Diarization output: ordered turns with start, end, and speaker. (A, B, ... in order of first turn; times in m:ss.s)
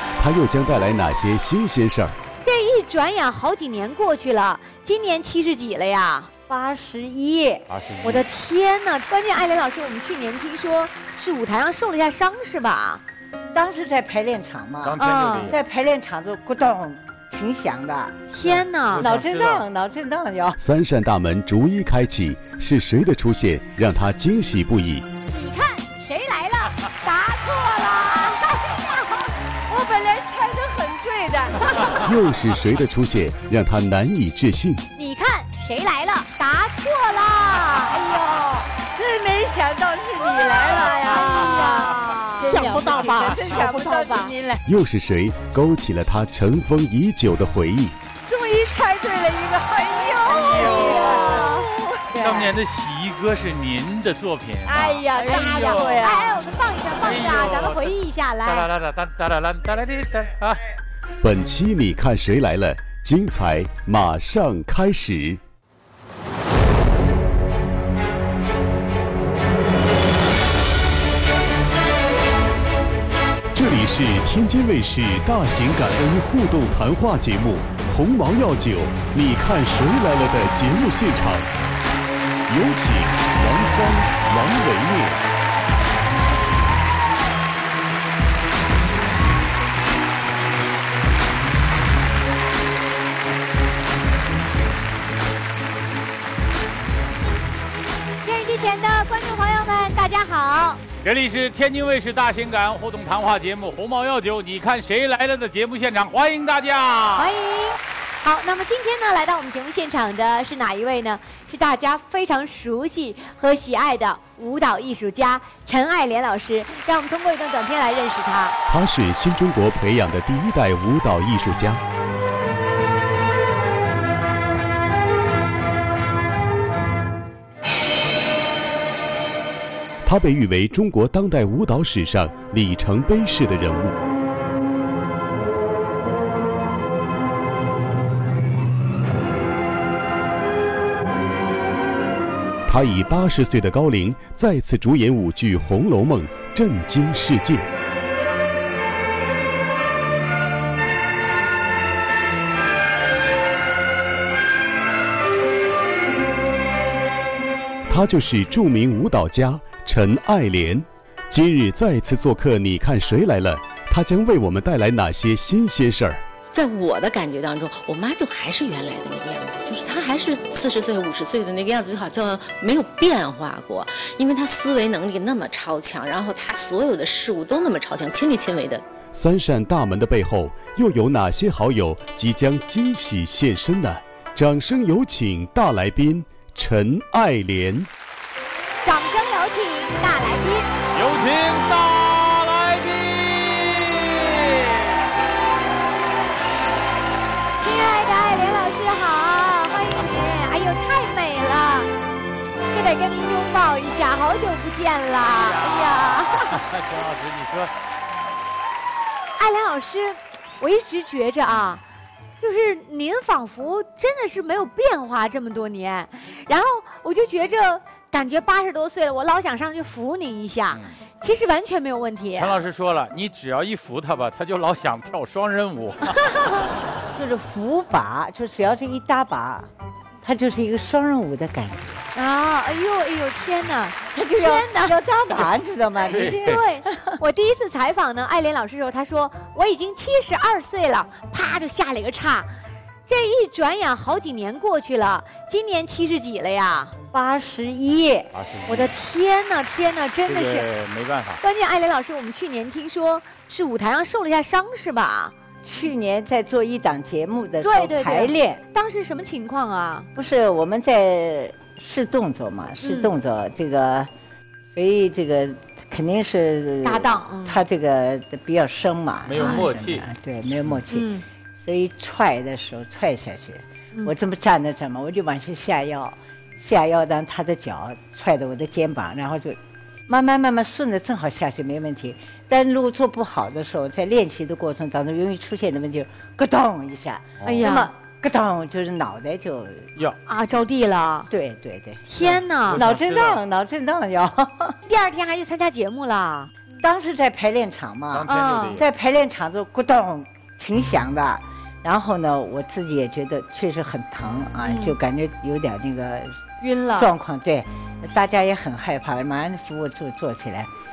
0:00.2-0:02.2 A
0:02.4-0:06.3 B
0:06.5-0:07.6 C
0:07.7-0:08.2 D
0:08.0-0:13.0 B
0:13.5-0:18.2 C
0:14.8-0:15.6 D
0:15.0-0:15.5 B
0:18.3-0:19.1 B
0:18.4-0:19.6 D
0:19.0-0:20.6 C
0:20.6-0:25.1 A
0:25.3-0:29.3 B
0:29.7-0:32.2 C
0:32.0-0:34.8 A
0:34.9-0:38.5 B
0:38.0-0:44.6 C
0:40.2-0:42.7 B
0:42.7-0:43.7 D
0:42.9-0:43.3 E
0:44.7-0:48.0 A
0:48.2-0:52.5 C
0:50.3-0:51.6 D
0:50.5-0:51.5 B
0:52.2-0:56.0 D
0:54.6-0:56.4 C
0:55.2-0:58.7 B
0:57.0-0:57.9 D
0:58.4-1:00.7 D
1:01.2-1:05.4 A
1:13.5-1:21.5 A
1:22.5-1:25.2 A
1:38.2-1:40.8 B
1:41.0-1:47.3 D
1:47.2-1:58.6 B
1:58.7-2:01.8 A
2:10.0-2:13.9 A
2:22.6-2:27.7 A
2:37.9-2:46.2 A
2:46.5-2:58.8 E
2:59.1-3:07.9 A
3:08.8-3:10.7 B
3:10.9-3:15.0 D
3:17.6-3:21.9 B
3:22.7-3:26.6 B
3:25.2-3:27.7 D
3:29.4-3:31.8 B
3:32.4-3:42.6 B
3:42.3-3:46.2 D
3:47.1-3:49.7 C
3:50.2-3:52.0 C
3:52.1-3:55.0 B
3:54.1-3:56.7 C
3:56.1-3:56.6 D
3:56.4-4:06.9 B
4:07.1-4:08.3 C
4:08.3-4:08.9 D
4:08.7-4:10.7 B
4:10.3-4:11.4 D
4:11.4-4:15.3 B
4:15.6-4:18.6 C
4:17.6-4:20.1 B
4:20.1-4:24.1 C
4:22.8-4:23.1 B
4:24.7-4:39.6 C
4:26.8-4:27.6 B
4:29.2-4:30.0 D
4:29.4-4:29.6 B
4:30.9-4:31.2 B
4:40.1-4:49.9 C
4:47.4-4:47.9 B
4:50.3-4:51.3 B
4:51.3-4:52.0 C
4:52.0-4:52.8 B
4:52.2-4:53.4 D
4:52.7-4:54.8 C
4:54.8-4:56.5 B
4:56.8-5:06.4 C
4:58.1-4:58.8 D
4:58.2-4:58.8 B
5:04.6-5:05.0 B
5:06.6-5:07.1 B
5:06.9-5:10.7 C